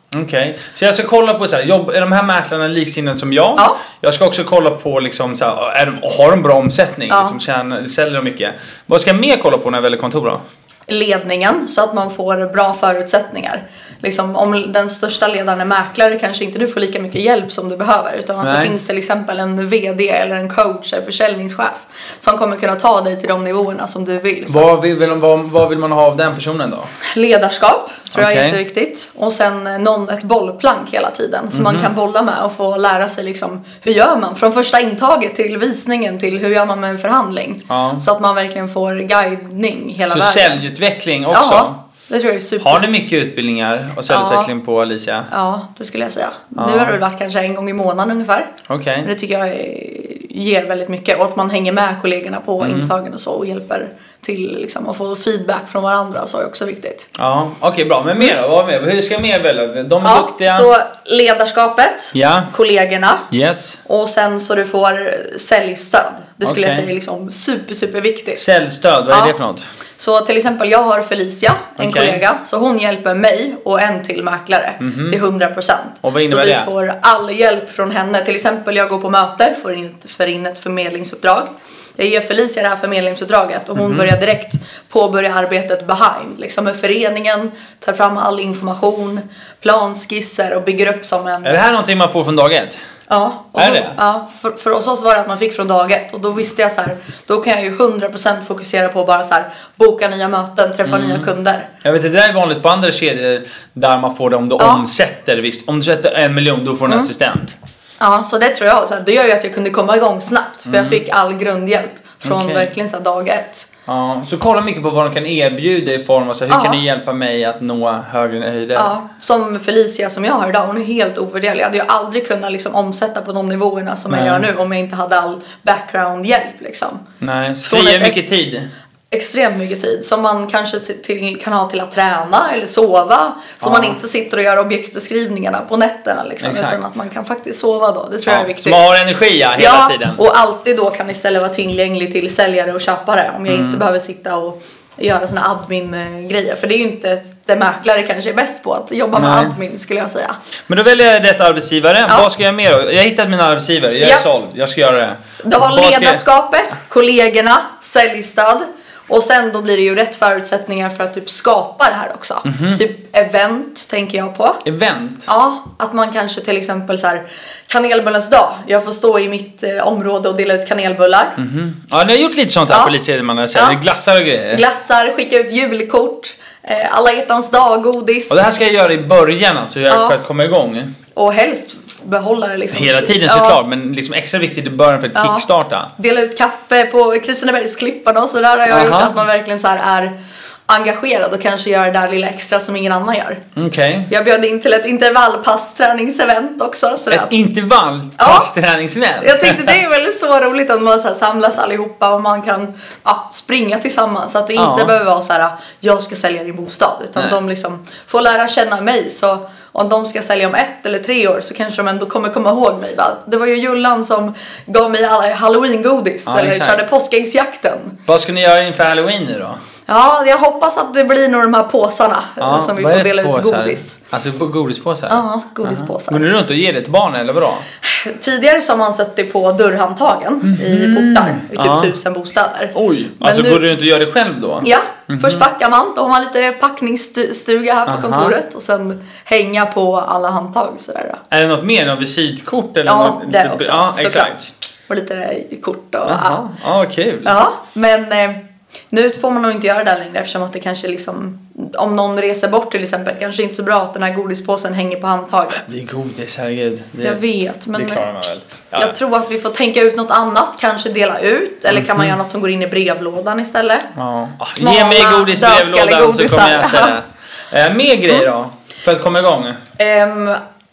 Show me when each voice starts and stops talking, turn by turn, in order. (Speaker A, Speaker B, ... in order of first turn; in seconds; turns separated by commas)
Speaker A: 0.1-10.4, Speaker B: 7.1-7.4, Speaker B: 10.9-24.7, Speaker A: 18.4-18.8, Speaker A: 24.5-26.9, Speaker B: 27.0-40.6, Speaker A: 28.1-28.6, Speaker A: 31.5-31.9, Speaker A: 37.7-38.0, Speaker A: 40.1-41.8, Speaker B: 41.3-42.9, Speaker A: 42.6-45.3, Speaker B: 44.1-44.5, Speaker B: 45.3-57.1, Speaker A: 46.6-47.0, Speaker A: 48.7-49.1, Speaker A: 52.6-52.9, Speaker A: 57.2-60.7, Speaker B: 60.0-63.3, Speaker A: 62.1-62.5, Speaker A: 63.3-63.8, Speaker B: 63.9-68.4, Speaker A: 66.4-66.9, Speaker A: 68.4-69.7, Speaker B: 69.1-69.3, Speaker B: 70.0-91.6, Speaker A: 71.8-72.2, Speaker A: 74.8-75.2, Speaker A: 76.0-76.7, Speaker A: 83.8-84.1, Speaker A: 91.4-92.8, Speaker B: 93.1-101.7, Speaker A: 93.6-94.0, Speaker A: 100.9-101.3, Speaker A: 101.8-107.5, Speaker B: 104.6-104.8, Speaker B: 108.0-113.7, Speaker A: 110.7-111.0, Speaker A: 112.2-112.7, Speaker A: 113.9-118.9, Speaker B: 116.5-116.8, Speaker B: 118.8-127.0, Speaker A: 124.1-124.5, Speaker A: 127.2-128.7, Speaker B: 127.7-128.2, Speaker B: 129.1-138.8, Speaker A: 133.6-134.0, Speaker A: 136.4-136.8, Speaker A: 138.3-140.2, Speaker B: 139.6-150.4, Speaker A: 143.5-143.8, Speaker A: 149.2-149.6, Speaker A: 150.7-156.2, Speaker B: 155.4-164.6, Speaker A: 162.4-162.8, Speaker A: 164.7-165.3, Speaker B: 165.3-171.4, Speaker A: 171.4-174.6, Speaker B: 172.7-172.9, Speaker B: 173.5-173.8, Speaker B: 174.5-178.5, Speaker A: 178.3-180.9, Speaker B: 179.9-180.2, Speaker B: 181.2-183.6, Speaker A: 182.7-185.9, Speaker B: 185.1-185.4, Speaker B: 186.0-190.1, Speaker A: 188.7-189.2, Speaker B: 190.7-193.4, Speaker A: 193.6-194.1, Speaker B: 194.1-197.3, Speaker A: 197.1-199.8, Speaker B: 198.2-198.5, Speaker B: 199.2-218.0, Speaker A: 204.6-204.9, Speaker A: 216.3-216.9, Speaker A: 218.1-219.6, Speaker B: 219.9-224.0, Speaker A: 222.4-227.7, Speaker B: 225.1-226.2, Speaker B: 227.8-233.6, Speaker A: 230.4-231.9, Speaker A: 232.7-235.5, Speaker B: 234.6-241.2, Speaker A: 237.9-238.4, Speaker A: 241.3-244.5, Speaker B: 242.9-244.3, Speaker B: 244.9-246.4, Speaker A: 246.1-247.3, Speaker B: 247.2-255.7, Speaker A: 255.7-257.2, Speaker B: 257.0-258.1, Speaker A: 257.7-258.9, Speaker B: 258.8-263.9, Speaker A: 261.7-262.1, Speaker A: 263.9-269.6, Speaker B: 264.5-267.0, Speaker B: 269.8-270.4